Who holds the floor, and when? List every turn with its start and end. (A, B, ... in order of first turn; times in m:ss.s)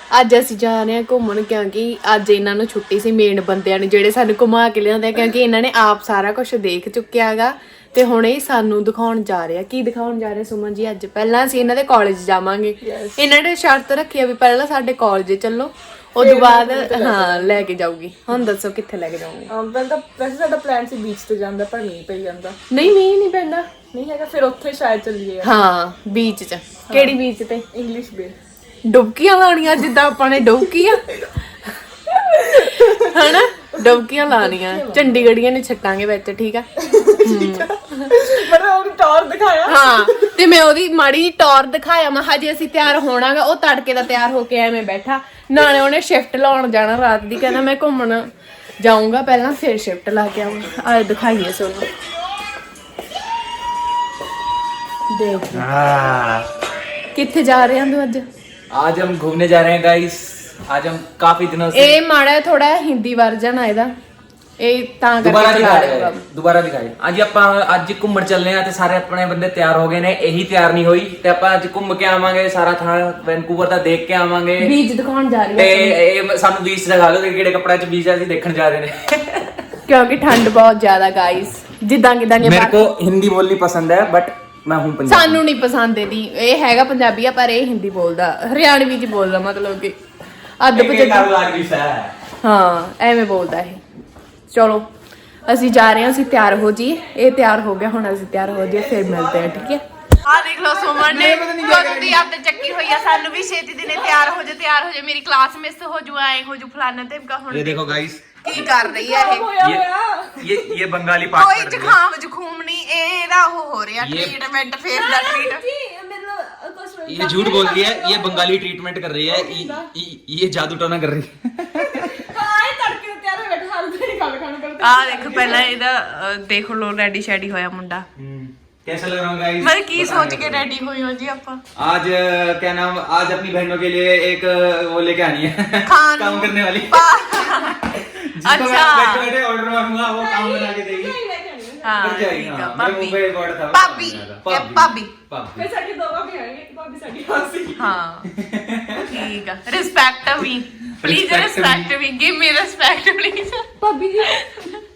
0:00.1-0:19.5 A
0:12.8-0:13.2 B
0:16.2-0:17.7 B
0:19.5-0:22.6 B
0:22.7-0:23.7 A
0:23.9-0:25.5 B
0:25.4-0:27.6 A
0:26.9-0:27.2 B
0:27.7-0:28.4 B
0:28.9-0:31.2 A
0:32.1-0:35.2 B
0:32.4-0:38.2 A
0:36.8-0:40.3 B
0:39.7-0:48.3 A
0:48.8-0:51.9 A
0:55.1-0:55.7 A
0:55.5-0:56.5 C
0:57.1-0:58.2 A
0:58.7-1:02.0 C
1:01.7-1:03.9 A
1:04.6-1:06.2 A
1:05.2-1:14.7 C
1:14.6-1:16.0 A
1:15.6-1:19.5 C
1:19.9-1:23.0 A
1:22.4-1:25.4 C
1:25.1-1:30.0 A
1:30.6-1:31.3 A
1:30.7-1:32.1 C
1:32.4-1:33.8 A
1:34.5-1:34.9 A
1:35.5-1:49.5 A
1:38.7-1:39.8 C
1:40.9-1:42.2 C
1:47.5-1:48.2 C
1:48.5-1:50.7 B
1:49.6-1:52.0 C
1:51.3-1:55.6 A
1:54.0-1:54.4 C
1:54.9-1:58.5 B
1:57.1-2:02.1 C
1:59.3-1:59.9 B
2:01.8-2:05.7 B
2:04.8-2:08.1 A
2:08.2-2:10.7 C
2:09.6-2:11.6 A
2:11.8-2:21.2 C
2:15.8-2:19.3 A
2:20.0-2:22.0 B
2:21.8-2:25.1 A
2:22.0-2:25.7 C
2:25.6-2:27.9 B
2:27.8-2:28.3 A
2:28.3-2:29.2 C
2:29.0-2:33.7 A
2:31.0-2:31.9 C
2:33.8-2:34.3 B
2:34.2-2:34.8 A